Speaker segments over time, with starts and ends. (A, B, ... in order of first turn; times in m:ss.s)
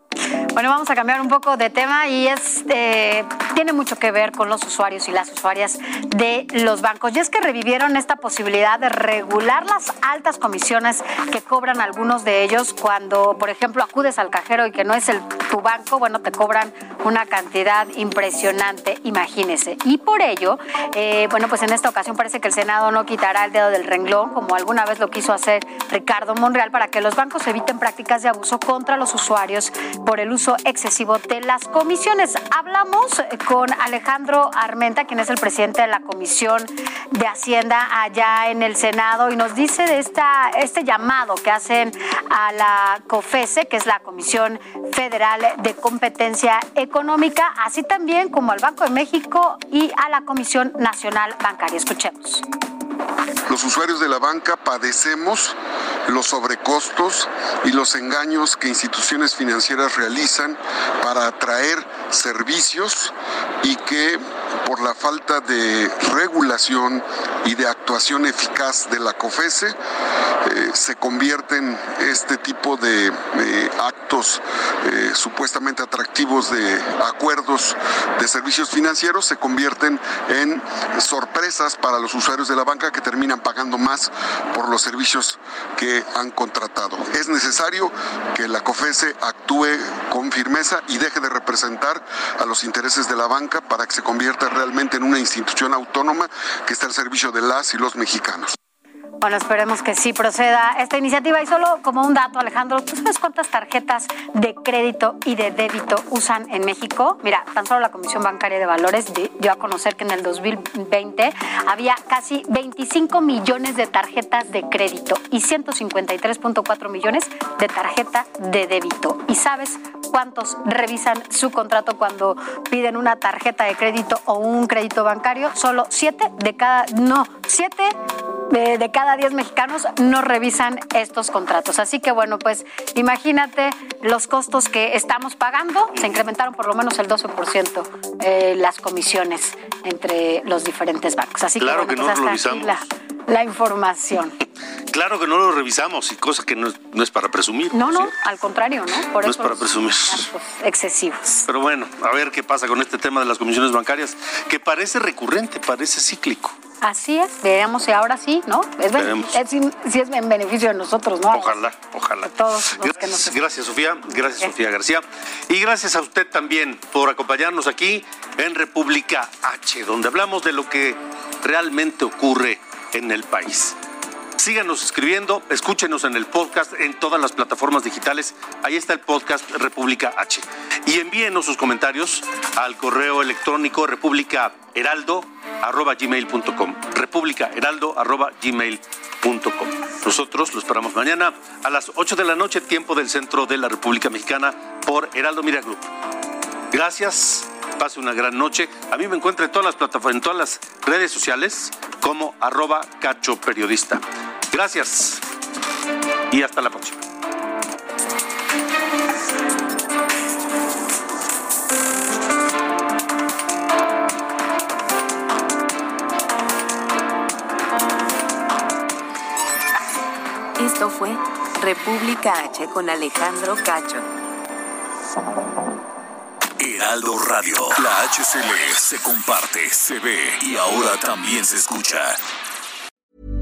0:00.6-0:52.4 A
0:53.5-0:55.6 B
0:56.1-1:09.8 B
1:10.4-1:38.6 B
1:39.2-2:08.0 A
2:08.5-2:24.4 A
2:21.6-2:22.8 C
2:24.9-2:28.1 C
2:27.7-2:31.3 A
2:29.2-2:30.3 C
2:31.4-2:36.6 C
2:36.8-2:41.7 A
2:39.0-2:39.4 C
2:41.3-2:53.8 C
2:42.2-2:43.4 A
2:54.4-3:15.9 C
3:16.7-3:25.2 C
3:26.3-3:27.0 C
3:40.6-3:44.1 D
3:46.6-3:52.2 E